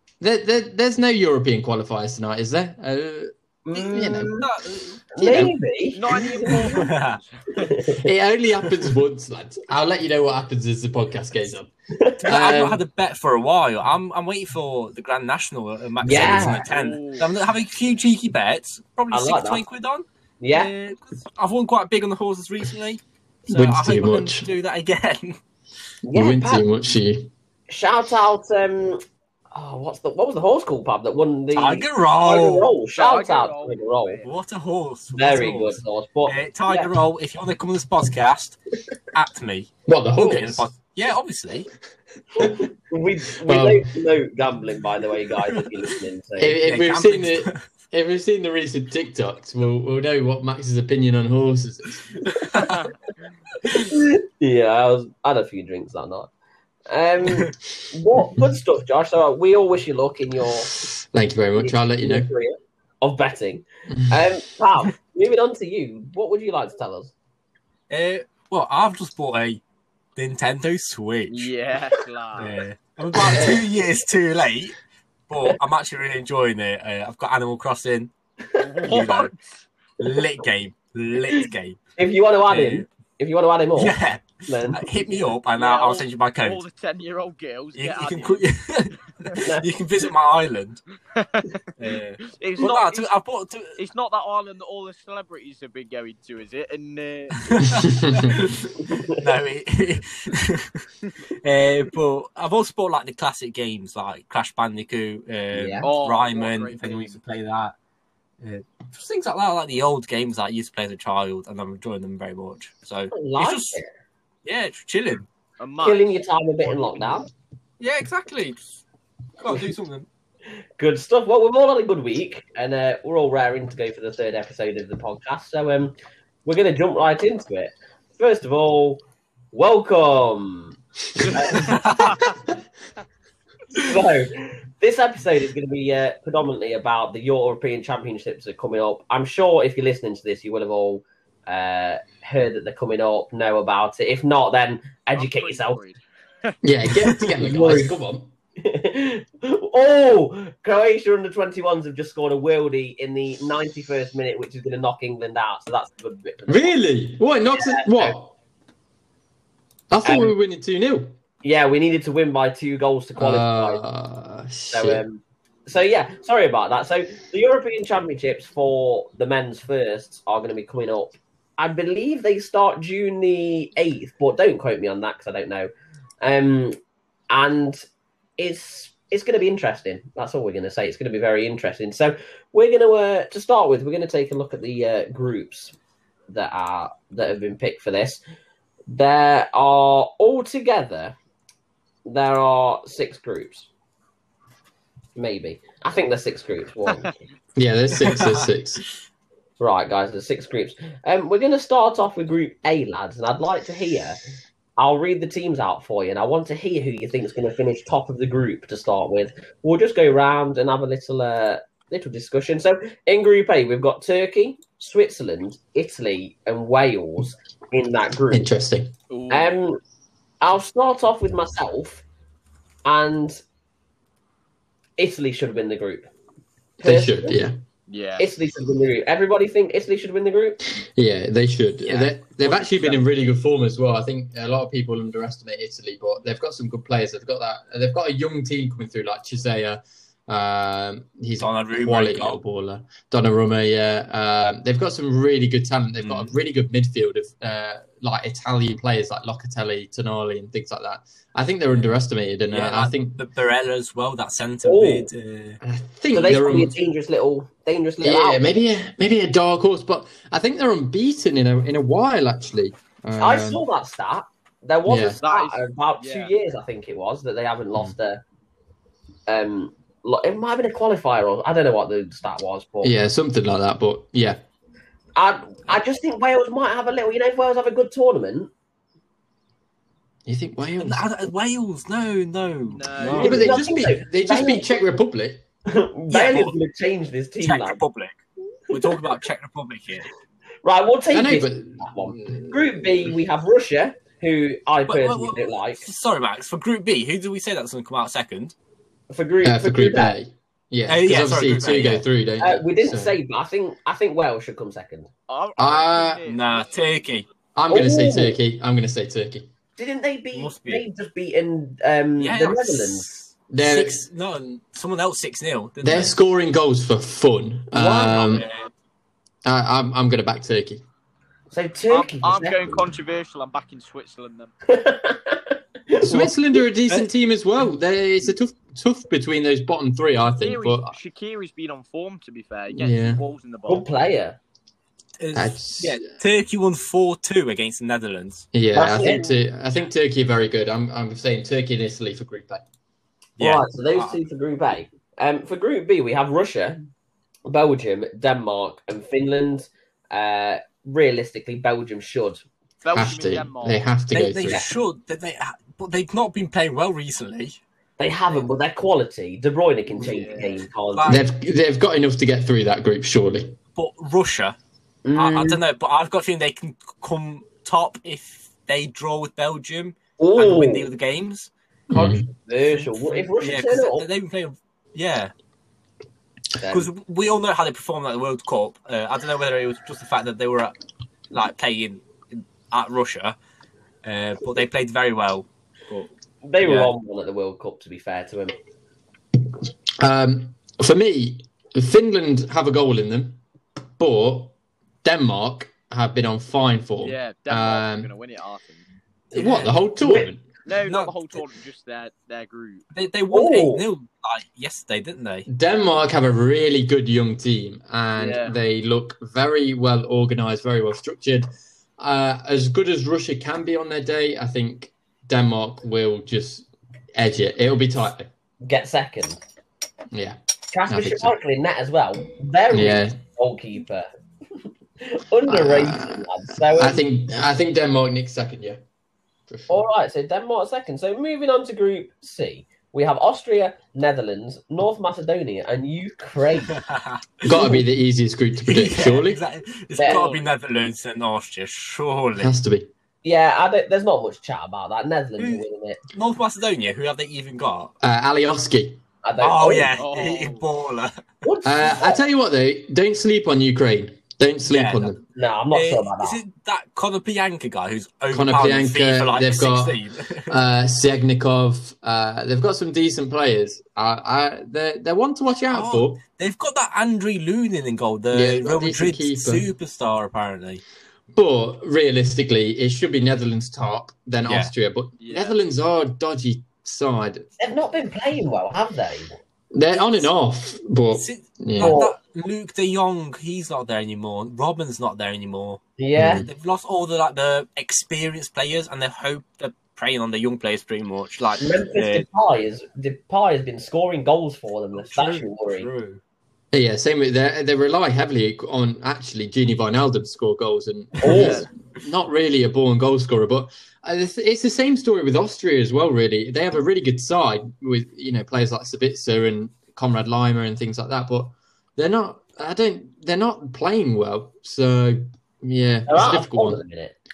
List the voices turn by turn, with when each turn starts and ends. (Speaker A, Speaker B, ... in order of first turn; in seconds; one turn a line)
Speaker A: 0.2-4.3
Speaker B: 3.6-4.5
Speaker C: 3.7-5.5
Speaker B: 5.1-6.7
Speaker A: 5.2-5.5
Speaker D: 5.9-7.7
Speaker C: 6.7-7.2
Speaker B: 7.5-8.1
Speaker A: 8.0-11.7
Speaker B: 11.9-12.3
Speaker A: 12.2-12.8
Speaker C: 12.2-25.4
Speaker B: 16.0-16.6
Speaker D: 16.6-17.3
Speaker B: 19.1-19.6
Speaker B: 20.4-20.7
Speaker A: 23.5-24.5
Speaker B: 26.0-26.6
Speaker A: 26.1-27.3
Speaker B: 27.7-29.0
Speaker B: 29.5-34.2
Speaker C: 31.5-32.7
Speaker D: 32.9-34.3
Speaker C: 34.2-38.6
Speaker B: 35.1-36.9
Speaker C: 39.1-41.7
Speaker A: 39.9-40.7
Speaker B: 42.4-46.6
Speaker A: 42.4-42.6
Speaker A: 43.4-43.9
Speaker A: 46.4-52.2
Speaker C: 46.6-47.6
Speaker B: 53.7-56.3
Speaker B: 56.9-60.7
Speaker A: 61.1-62.3
Speaker B: 61.6-67.1
Speaker C: 67.9-69.6
Speaker C: 70.2-71.5
Speaker D: 71.3-72.6
Speaker C: 72.3-74.8
Speaker B: 73.1-73.6
Speaker C: 75.3-78.1
Speaker D: 78.6-79.3
Speaker C: 78.8-79.3
Speaker C: 80.0-81.8
Speaker B: 82.0-84.8
Speaker C: 82.5-82.8
Speaker C: 83.8-86.6
Speaker D: 85.6-88.5
Speaker C: 87.8-90.8
Speaker B: 89.4-89.7
Speaker D: 91.1-91.7
Speaker C: 91.8-93.8
Speaker D: 92.3-93.1
Speaker D: 93.8-98.5
Speaker C: 97.5-100.9
Speaker B: 98.8-99.2
Speaker C: 101.4-107.7
Speaker B: 105.5-105.9
Speaker D: 105.8-107.2
Speaker C: 108.4-113.8
Speaker B: 113.1-113.9
Speaker C: 114.4-115.2
Speaker D: 115.6-116.2
Speaker B: 115.8-117.3
Speaker C: 117.8-118.8
Speaker C: 119.4-120.1
Speaker B: 120.8-130.8
Speaker D: 131.2-132.4
Speaker B: 131.3-132.2
Speaker C: 131.6-132.2
Speaker B: 133.7-145.8
Speaker D: 145.2-146.5
Speaker A: 146.6-148.3
Speaker B: 147.4-147.9
Speaker B: 148.6-156.8
Speaker A: 156.5-158.3
Speaker B: 157.5-158.2
Speaker A: 159.9-161.2
Speaker B: 160.0-160.3
Speaker B: 161.4-163.8
Speaker A: 163.2-165.0
Speaker B: 164.7-175.7
Speaker B: 176.2-176.8
Speaker B: 177.3-177.8
Speaker B: 178.4-185.7
Speaker B: 186.3-188.2
Speaker B: 188.9-191.2
Speaker B: 192.1-193.7
Speaker B: 195.2-197.1
Speaker A: 197.6-198.8
Speaker C: 198.0-198.5
Speaker B: 199.6-204.2
Speaker B: 204.8-218.4
Speaker A: 218.3-218.9
Speaker D: 219.1-219.5
Speaker B: 219.3-219.8
Speaker B: 220.4-222.0
Speaker B: 222.8-223.4
Speaker B: 225.0-226.1
Speaker A: 226.8-227.6
Speaker B: 226.8-227.4
Speaker D: 227.9-228.2
Speaker B: 228.2-230.6
Speaker A: 230.8-253.2
Speaker B: 232.6-233.0
Speaker C: 241.4-242.4
Speaker C: 246.0-246.3
Speaker C: 252.5-255.6
Speaker B: 254.6-255.1
Speaker A: 255.6-256.7
Speaker B: 256.1-258.4
Speaker A: 258.0-263.6
Speaker B: 263.2-268.2
Speaker A: 264.9-265.2
Speaker D: 265.2-266.3
Speaker B: 269.3-272.9
Speaker A: 272.8-274.4
Speaker B: 275.1-278.5
Speaker A: 280.2-281.1
Speaker C: 280.8-283.7
Speaker D: 282.7-283.6
Speaker A: 283.1-285.4
Speaker B: 283.1-284.7
Speaker B: 285.7-287.8
Speaker C: 286.1-286.6
Speaker C: 287.4-290.1
Speaker B: 290.6-295.9
Speaker A: 291.1-293.1
Speaker C: 294.9-298.5
Speaker B: 299.1-300.2
Speaker A: 299.4-303.1
Speaker C: 300.9-302.0
Speaker B: 302.4-305.1
Speaker D: 305.3-306.7
Speaker A: 305.6-306.2
Speaker C: 306.2-307.3
Speaker A: 307.5-309.5
Speaker B: 307.7-308.3
Speaker B: 309.8-313.1
Speaker C: 310.3-310.8
Speaker C: 312.2-316.1
Speaker A: 313.5-314.1
Speaker A: 315.8-318.5
Speaker B: 317.7-318.3
Speaker C: 317.8-318.7
Speaker A: 319.4-320.8
Speaker B: 321.5-322.8
Speaker D: 321.9-324.5
Speaker B: 324.7-326.6
Speaker A: 326.0-331.0
Speaker D: 330.4-333.9
Speaker A: 332.7-333.2
Speaker B: 333.7-334.4
Speaker C: 335.2-338.5
Speaker A: 335.3-336.0
Speaker A: 338.5-342.6
Speaker B: 338.7-339.2
Speaker D: 338.9-339.4
Speaker C: 343.4-344.2
Speaker B: 343.4-346.8
Speaker B: 347.5-352.4
Speaker D: 352.8-353.8
Speaker A: 352.9-354.6
Speaker C: 354.1-357.6
Speaker B: 358.0-361.1
Speaker D: 360.0-360.6
Speaker C: 360.9-361.2
Speaker A: 361.1-363.6
Speaker C: 363.8-364.6
Speaker B: 365.0-365.6
Speaker C: 365.1-371.5
Speaker B: 370.2-370.9
Speaker A: 371.9-372.2
Speaker B: 371.9-374.1
Speaker C: 372.7-375.3
Speaker B: 376.6-376.9
Speaker C: 376.7-380.8
Speaker C: 381.3-383.4
Speaker C: 384.0-386.9
Speaker B: 386.4-388.5
Speaker A: 390.0-393.4
Speaker A: 394.0-398.1
Speaker D: 397.0-398.8
Speaker C: 399.3-399.8
Speaker A: 399.3-400.4
Speaker B: 400.0-400.3
Speaker D: 400.6-402.9
Speaker C: 400.7-401.4
Speaker C: 402.9-405.5
Speaker B: 403.3-403.8
Speaker A: 405.5-411.5
Speaker D: 408.2-408.5
Speaker A: 412.0-418.3
Speaker B: 418.6-419.4
Speaker A: 420.1-421.3
Speaker B: 420.7-424.1
Speaker A: 422.7-423.2
Speaker B: 424.6-427.0
Speaker A: 425.5-428.8
Speaker A: 429.5-429.7
Speaker B: 429.7-436.8
Speaker C: 436.8-437.2
Speaker A: 437.4-439.4
Speaker B: 437.4-437.8
Speaker C: 438.6-442.5
Speaker B: 439.9-440.2
Speaker D: 440.0-440.5
Speaker A: 442.4-442.9
Speaker B: 443.2-446.0
Speaker C: 445.4-447.9
Speaker A: 448.0-449.0
Speaker B: 449.2-449.9
Speaker C: 449.4-451.1
Speaker D: 450.0-450.6
Speaker B: 451.4-452.2
Speaker A: 451.6-455.2
Speaker C: 454.7-460.5
Speaker B: 455.4-456.4
Speaker A: 458.3-466.2
Speaker C: 465.7-470.8
Speaker A: 468.3-469.6
Speaker A: 471.3-477.5
Speaker C: 474.4-474.7
Speaker D: 475.2-475.6
Speaker B: 477.6-479.4
Speaker A: 479.7-482.0
Speaker C: 481.1-485.8
Speaker B: 481.8-482.1
Speaker B: 486.0-486.4
Speaker A: 486.1-486.4
Speaker C: 486.4-492.2
Speaker B: 491.6-495.9
Speaker C: 494.9-496.2
Speaker A: 496.7-516.8
Speaker B: 501.2-501.6
Speaker D: 501.3-501.7
Speaker B: 516.1-517.1